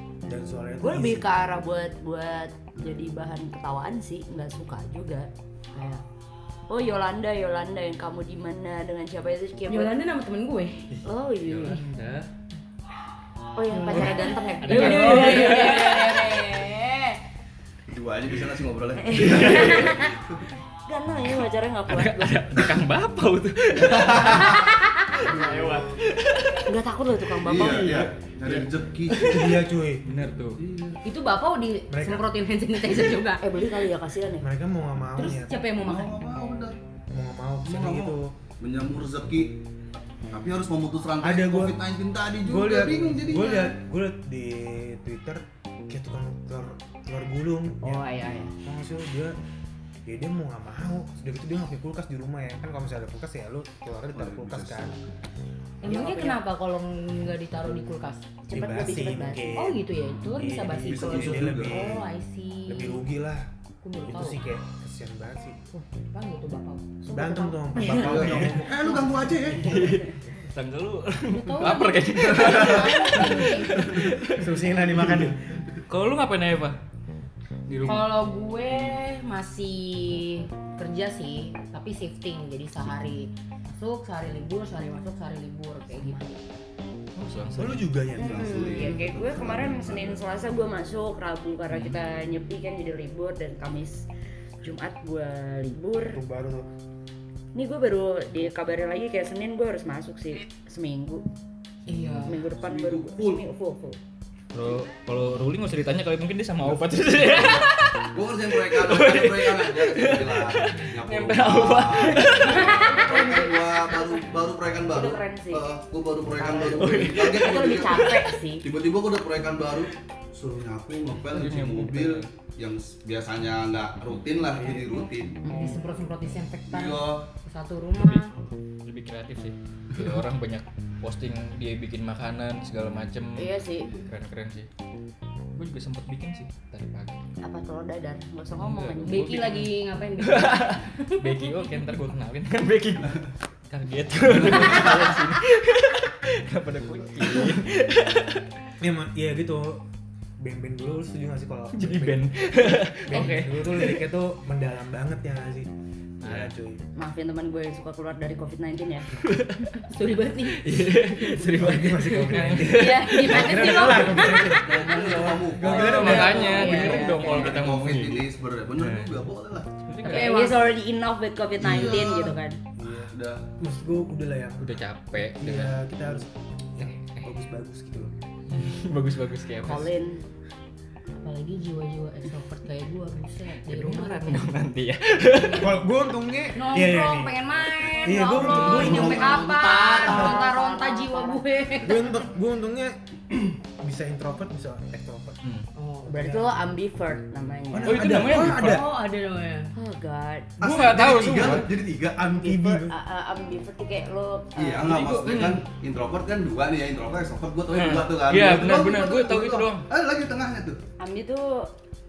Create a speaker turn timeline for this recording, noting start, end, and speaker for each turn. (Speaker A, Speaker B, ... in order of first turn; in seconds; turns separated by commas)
Speaker A: 0.3-1.3, Speaker B: 0.8-6.0, Speaker B: 6.7-9.9, Speaker C: 9.7-10.9, Speaker B: 11.0-11.8, Speaker D: 11.4-12.3, Speaker B: 13.6-17.2, Speaker C: 13.7-16.3, Speaker D: 13.9-16.3, Speaker E: 17.9-20.4, Speaker B: 19.0-20.2, Speaker D: 19.1-20.0, Speaker B: 20.9-22.5, Speaker D: 21.9-26.7, Speaker E: 23.8-24.7, Speaker E: 25.2-26.0, Speaker B: 26.7-28.0, Speaker E: 27.4-29.4, Speaker D: 27.5-30.6, Speaker A: 29.3-30.0, Speaker E: 30.6-31.0, Speaker C: 31.0-33.4, Speaker A: 31.9-32.3, Speaker B: 33.4-34.5, Speaker A: 34.4-35.6, Speaker C: 35.2-36.1, Speaker E: 35.8-36.8, Speaker A: 37.1-38.3, Speaker E: 37.6-39.6, Speaker E: 40.3-43.7, Speaker A: 41.2-41.8, Speaker A: 42.4-49.4, Speaker B: 47.8-48.5, Speaker A: 50.1-55.0, Speaker E: 54.1-55.0, Speaker C: 55.8-58.3, Speaker B: 55.8-56.4, Speaker B: 58.4-59.5, Speaker A: 58.5-62.1, Speaker C: 59.5-63.0, Speaker E: 60.9-61.9, Speaker A: 62.7-63.5, Speaker C: 63.8-64.4, Speaker A: 64.1-65.7, Speaker C: 65.7-67.5, Speaker A: 67.0-69.0, Speaker B: 67.7-68.4, Speaker E: 67.9-69.8, Speaker D: 69.5-74.6, Speaker B: 69.7-70.1, Speaker C: 71.3-73.8, Speaker E: 72.1-73.2, Speaker E: 73.8-74.1, Speaker A: 74.3-75.4, Speaker D: 75.9-76.8, Speaker D: 77.7-78.2, Speaker C: 77.8-86.4, Speaker D: 87.2-88.0, Speaker A: 87.5-88.8, Speaker E: 88.1-90.2, Speaker B: 88.2-94.1, Speaker D: 91.7-92.0, Speaker B: 94.6-96.2, Speaker A: 96.1-96.7, Speaker B: 97.5-101.2, Speaker D: 101.9-102.3, Speaker C: 101.9-102.4, Speaker B: 102.2-104.0, Speaker E: 102.5-103.5, Speaker D: 104.5-113.0, Speaker E: 106.7-125.4, Speaker B: 112.2-114.2, Speaker B: 114.9-115.7, Speaker B: 116.3-118.7, Speaker D: 116.8-118.3, Speaker D: 121.2-122.3, Speaker B: 125.4-125.8, Speaker C: 125.5-128.3, Speaker E: 126.7-127.3, Speaker D: 128.0-128.3, Speaker D: 128.8-134.7, Speaker B: 133.4-134.0, Speaker D: 135.6-137.2, Speaker B: 137.4-139.4, Speaker D: 138.5-148.5, Speaker C: 139.1-141.7, Speaker E: 144.5-144.9, Speaker A: 148.8-149.8, Speaker A: 150.4-156.8, Speaker D: 151.7-154.0, Speaker C: 153.1-153.4, Speaker D: 156.2-156.5, Speaker B: 157.0-159.1, Speaker D: 159.2-159.8, Speaker C: 159.8-160.6, Speaker D: 160.5-164.5, Speaker A: 161.4-167.0, Speaker C: 162.6-165.2, Speaker E: 164.4-169.7, Speaker B: 165.0-167.6, Speaker D: 165.6-169.1, Speaker D: 169.9-170.4, Speaker C: 170.0-170.7, Speaker B: 170.0-172.6, Speaker E: 171.6-173.5, Speaker A: 172.8-178.2, Speaker D: 174.6-175.8, Speaker D: 176.8-177.3, Speaker D: 178.5-179.9, Speaker B: 179.6-180.2, Speaker C: 181.1-184.5, Speaker D: 183.7-185.8, Speaker C: 185.3-185.7, Speaker A: 185.5-187.4, Speaker C: 186.5-192.2, Speaker A: 187.9-189.4, Speaker B: 188.4-191.4, Speaker E: 188.8-189.3, Speaker A: 190.0-190.4, Speaker A: 191.8-195.4, Speaker C: 195.8-196.2, Speaker B: 196.1-198.2, Speaker A: 196.1-196.6, Speaker A: 197.7-198.9, Speaker D: 197.8-198.9, Speaker C: 198.4-199.7, Speaker B: 199.8-200.6, Speaker E: 200.6-202.6, Speaker D: 200.6-201.7, Speaker A: 202.3-203.0, Speaker B: 202.3-205.0, Speaker E: 204.6-210.8, Speaker D: 204.9-205.6, Speaker D: 207.7-209.9, Speaker B: 211.0-211.7